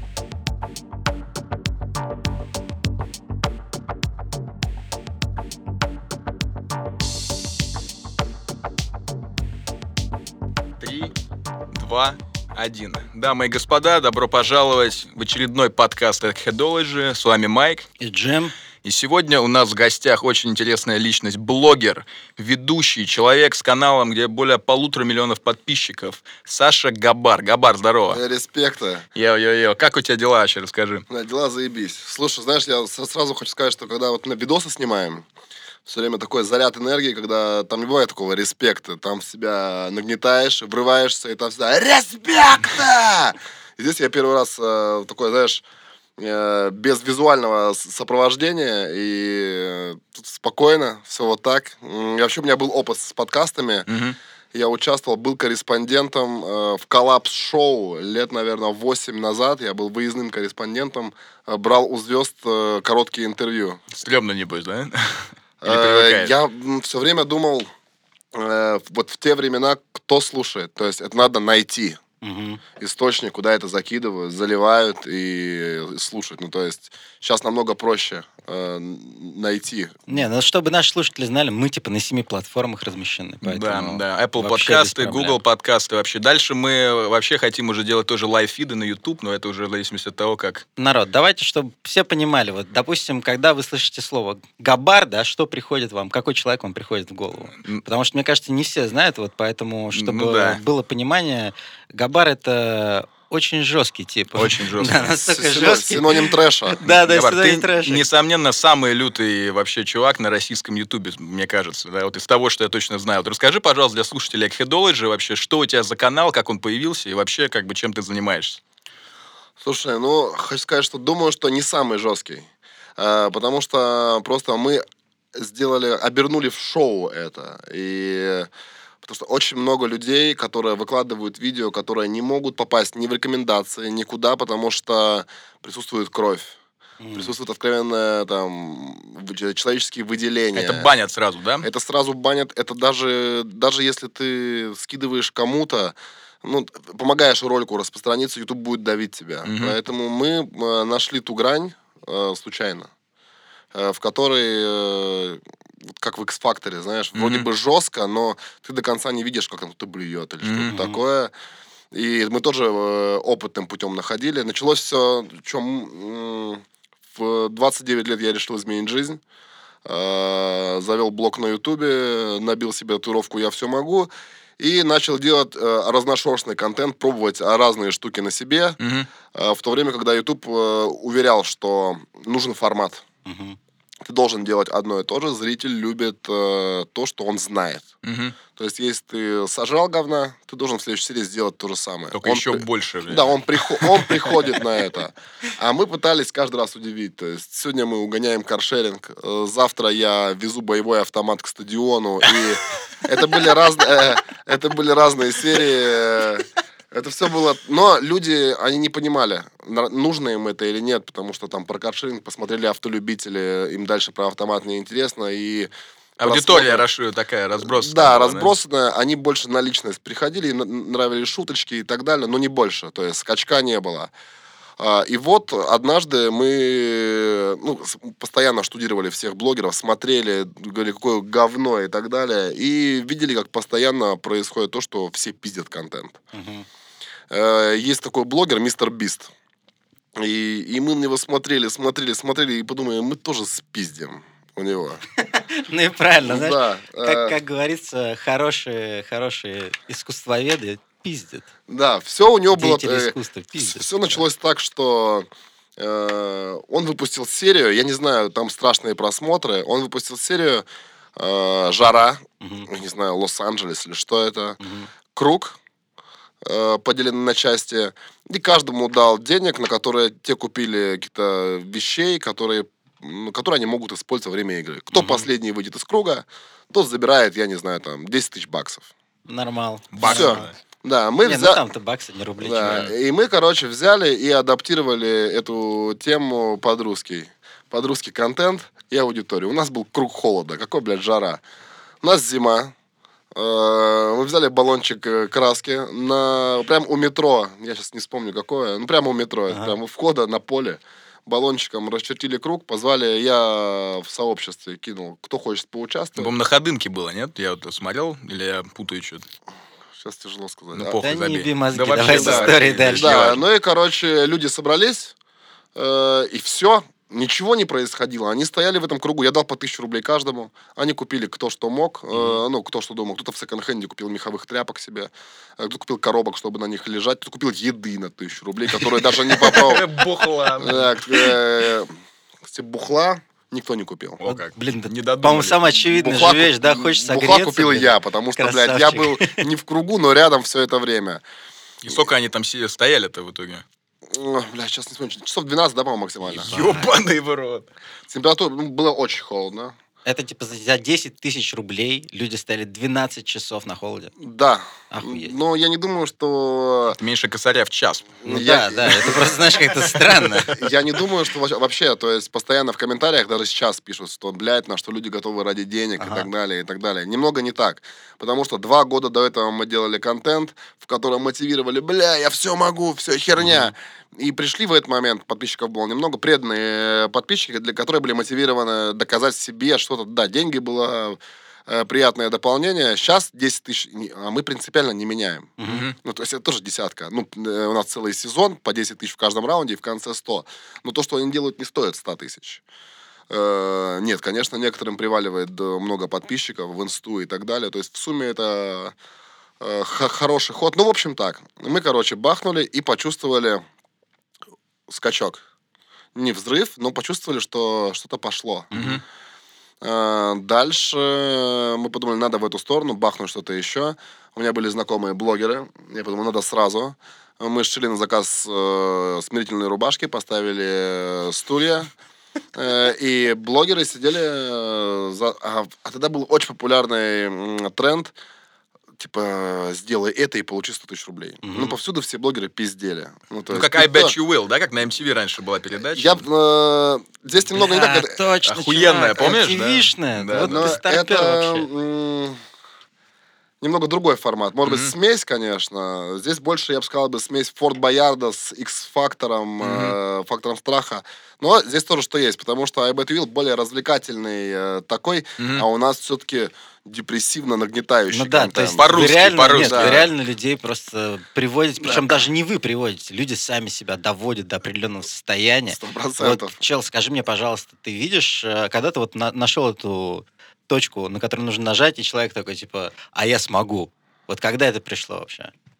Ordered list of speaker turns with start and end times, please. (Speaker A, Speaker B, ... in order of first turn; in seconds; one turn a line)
Speaker A: 10.8-11.1
Speaker A: 11.7-17.9
Speaker B: 18.0-18.5
Speaker A: 18.8-28.2
Speaker C: 28.1-29.1
Speaker A: 29.1-31.0
Speaker C: 31.1-35.2
Speaker C: 35.9-45.6
Speaker C: 46.2-53.9
Speaker A: 53.9-54.1
Speaker C: 54.5-63.8
Speaker A: 63.9-66.3
Speaker C: 65.6-67.7
Speaker C: 68.3-72.0
Speaker B: 72.2-72.6
Speaker C: 72.8-80.2
Speaker B: 80.1-85.4
Speaker A: 83.4-90.6
Speaker B: 90.8-108.0
Speaker A: 97.5-97.8
Speaker A: 99.9-100.6
Speaker A: 104.3-105.1
Speaker C: 105.2-106.8
Speaker A: 106.8-118.6
Speaker C: 119.6-128.5
Speaker C: 129.0-136.5
Speaker B: 137.0-137.3
Speaker C: 137.1-140.9
Speaker A: 140.5-141.7
Speaker C: 141.6-152.9
Speaker A: 149.4-149.8
Speaker C: 153.7-161.3
Speaker A: 157.1-157.5
Speaker A: 160.4-160.7
Speaker B: 160.7-161.0
Speaker C: 161.9-169.2
Speaker C: 169.8-178.8
Speaker A: 178.8-179.1
Speaker C: 179.3-183.0
Speaker B: 183.2-183.6
Speaker C: 184.0-187.9
Speaker A: 188.0-188.4
Speaker C: 188.5-215.7
Speaker A: 192.1-194.4
Speaker A: 216.2-218.5
Speaker C: 216.2-216.8
Speaker C: 217.6-224.1
Speaker C: 224.8-236.2
Speaker B: 236.3-236.7
Speaker C: 237.3-239.3
Speaker C: 240.2-245.0
Speaker B: 245.3-251.5
Speaker C: 246.2-247.4
Speaker C: 251.7-264.6
Speaker B: 252.5-254.2
Speaker B: 262.4-262.7
Speaker B: 264.6-264.9
Speaker C: 265.1-265.6
Speaker C: 266.4-278.9
Speaker B: 274.9-275.2
Speaker B: 279.3-280.5
Speaker A: 279.9-280.5
Speaker C: 280.0-281.6
Speaker B: 281.2-282.9
Speaker C: 282.4-291.4
Speaker C: 292.0-292.7
Speaker C: 293.3-306.3
Speaker A: 306.1-309.3
Speaker C: 310.0-311.0
Speaker A: 310.7-313.4
Speaker B: 311.0-313.3
Speaker C: 311.9-315.1
Speaker C: 315.7-329.9
Speaker B: 322.1-322.4
Speaker A: 329.4-331.3
Speaker C: 330.6-331.9
Speaker C: 332.4-334.2
Speaker A: 334.2-335.6
Speaker B: 334.2-339.4
Speaker C: 335.8-341.2
Speaker A: 341.8-343.6
Speaker C: 344.1-346.5
Speaker A: 346.3-347.7
Speaker B: 346.5-346.9
Speaker C: 348.1-349.8
Speaker B: 350.0-354.1
Speaker C: 354.2-357.0
Speaker B: 354.9-355.4
Speaker A: 357.0-358.2
Speaker B: 358.2-360.6
Speaker C: 358.2-359.4
Speaker C: 360.5-392.6
Speaker B: 366.0-366.3
Speaker B: 373.4-373.7
Speaker B: 385.6-385.9
Speaker A: 385.6-385.9
Speaker C: 393.3-398.9
Speaker C: 399.6-403.6
Speaker C: 404.9-405.4
Speaker C: 406.1-408.7
Speaker B: 408.7-409.0
Speaker A: 408.7-409.0
Speaker C: 409.8-421.9
Speaker C: 422.5-428.1
Speaker C: 429.0-434.1
Speaker B: 431.4-431.8
Speaker A: 433.5-436.2
Speaker C: 435.9-438.1
Speaker B: 437.5-441.7
Speaker A: 438.4-440.7
Speaker C: 440.4-442.4
Speaker C: 443.6-460.1
Speaker A: 444.6-444.9
Speaker A: 449.6-450.0
Speaker A: 455.4-455.6
Speaker B: 458.1-475.5
Speaker A: 458.8-460.1
Speaker C: 461.8-462.1
Speaker C: 465.7-466.6